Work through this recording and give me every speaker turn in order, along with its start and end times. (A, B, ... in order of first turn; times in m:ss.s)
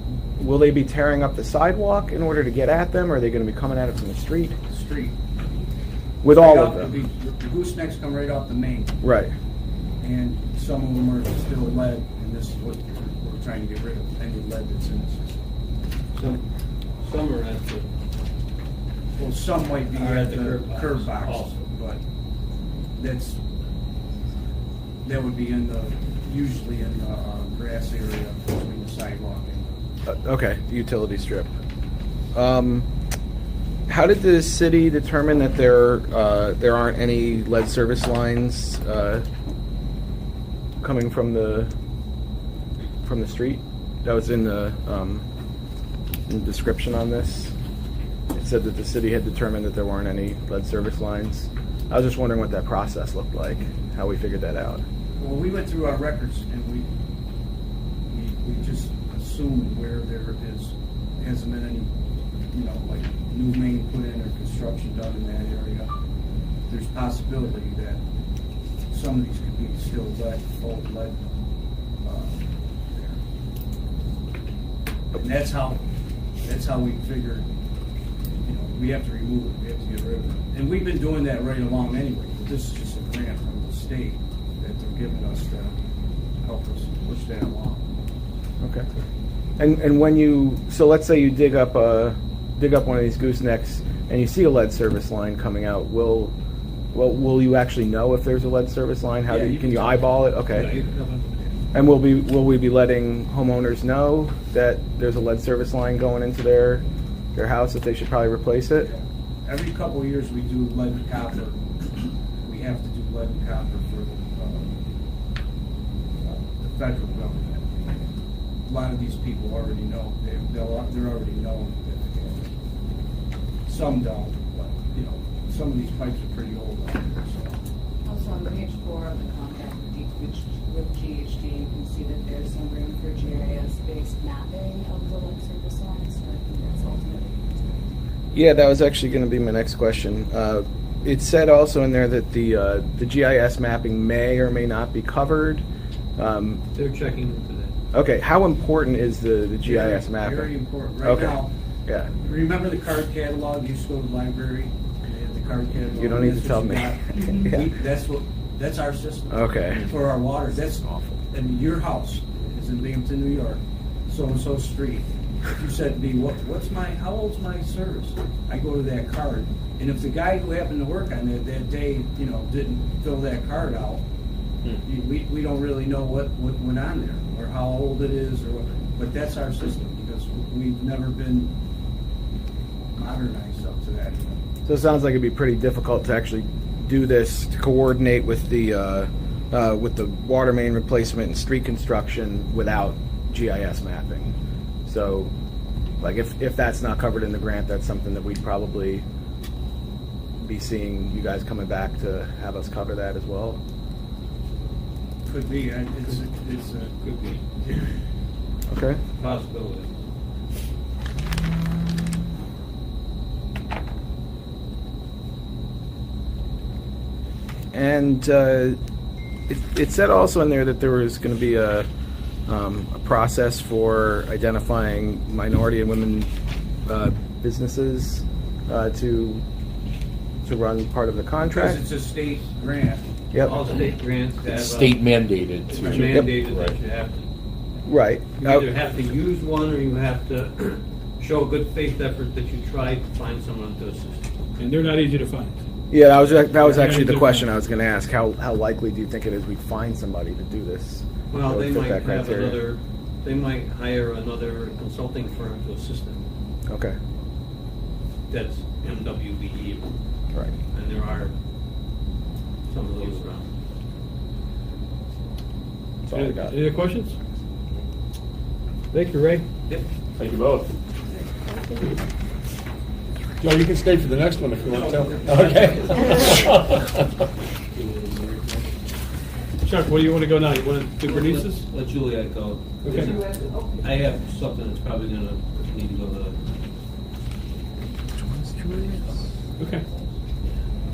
0:00.4-0:04.6 A
0:04.7-0:05.2 B
0:06.2-0:06.9 A
0:06.3-0:09.0 B
0:09.0-0:09.3 A
0:10.0-0:15.5 B
0:16.1-0:16.4 C
0:17.0-0:17.9 C
0:19.2-0:22.0 B
0:19.9-0:21.7 C
0:23.0-0:23.4 B
0:25.0-0:29.8 B
0:30.1-0:31.5 A
0:32.3-0:32.9 A
0:33.9-0:39.3 A
0:40.8-0:41.7 A
0:43.0-0:45.3 A
0:46.3-0:47.5 A
0:48.3-0:54.8 A
0:55.2-0:56.9 B
0:58.1-1:01.9 B
1:02.5-1:05.9 B
1:06.7-1:08.0 B
1:08.9-1:11.3 B
1:12.0-1:13.2 B
1:15.1-1:15.8 B
1:16.4-1:17.5 B
1:18.4-1:25.8 B
1:26.4-1:27.9 B
1:28.6-1:28.9 A
1:29.6-1:36.4 A
1:36.9-1:40.7 A
1:39.3-1:41.4 C
1:41.7-1:48.9 A
1:48.8-1:51.6 B
1:52.4-1:54.8 B
1:56.2-1:58.1 B
1:58.7-2:02.5 B
2:03.7-2:07.6 B
2:08.0-2:17.9 D
2:18.3-2:25.6 A
2:26.2-2:26.6 A
2:26.8-2:27.8 C
2:27.9-2:30.5 A
2:29.6-2:31.5 B
2:31.0-2:32.1 A
2:32.2-2:54.0 B
2:36.0-2:37.7 A
2:39.3-2:39.8 A
2:54.8-3:01.6 B
3:03.0-3:04.4 B
3:04.7-3:15.3 A
3:16.0-3:19.0 A
3:20.4-3:23.6 A
3:25.3-3:26.9 B
3:26.8-3:27.9 C
3:28.7-3:29.0 A
3:29.2-3:29.9 C
3:37.7-3:38.8 A
3:39.5-3:41.9 A
3:42.5-3:46.3 A
3:46.9-3:49.4 A
3:50.4-3:51.8 A
3:51.5-3:53.0 B
3:53.3-3:53.6 A
3:53.4-3:55.1 C
3:54.5-3:56.8 E
3:55.6-3:57.3 C
3:55.9-3:56.4 A
3:57.9-3:58.7 A
3:58.4-4:04.3 C
4:04.6-4:05.6 F
4:05.9-4:12.6 A
4:06.5-4:07.5 F
4:11.3-4:16.2 C
4:16.7-4:17.0 A
4:18.3-4:20.0 C
4:20.7-4:21.3 C
4:22.7-4:23.5 C
4:26.1-4:26.6 A
4:26.1-4:27.2 F
4:28.9-4:29.5 F
4:30.2-4:30.7 E
4:33.4-4:37.2 E
4:34.7-4:36.6 C
4:37.8-4:38.7 C
4:39.6-4:41.6 F
4:41.0-4:46.4 C
4:42.8-4:43.2 F
4:43.0-4:43.9 D
4:48.2-4:49.1 A
4:49.6-4:49.8 F